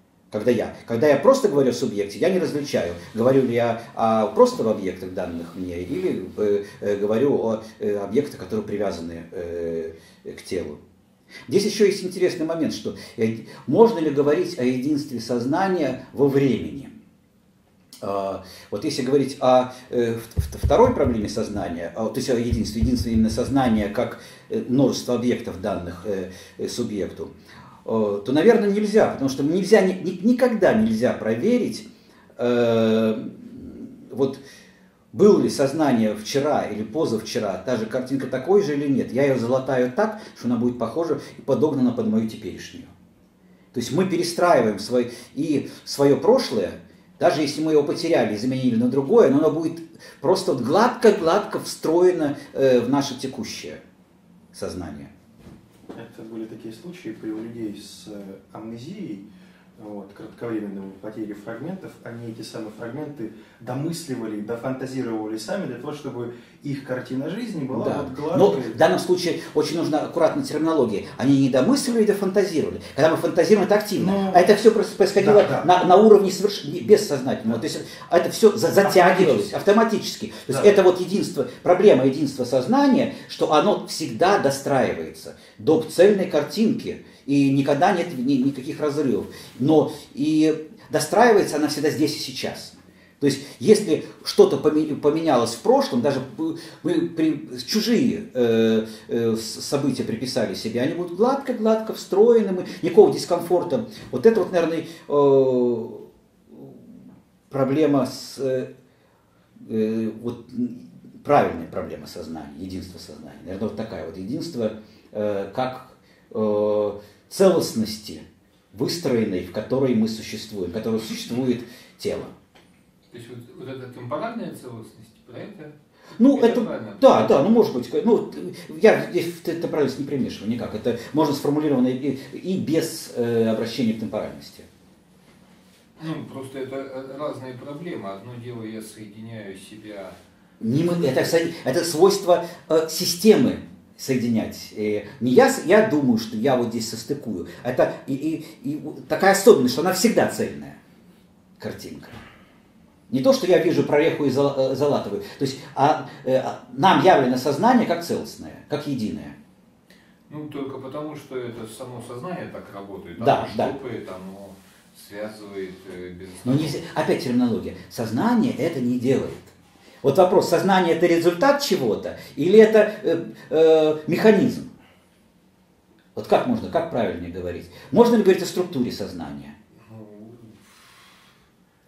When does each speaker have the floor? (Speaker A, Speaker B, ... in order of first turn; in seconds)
Speaker A: 0.3-10.8, 11.5-16.9, 18.0-27.3, 27.8-31.9, 32.4-34.4, 35.1-42.9, 43.7-53.8, 54.5-55.1, 67.7-106.7, 107.5-108.7, 109.6-122.3, 126.2-134.7, 140.6-150.8, 151.6-152.2, 153.1-159.3, 163.2-163.7, 166.4-174.7, 176.2-179.5
Speaker B: 55.9-59.2, 59.8-68.8, 74.0-74.5, 75.2-75.7, 79.0-79.4
Speaker C: 123.1-125.7, 126.3-127.5, 136.0-140.2, 160.3-166.8, 179.8-180.6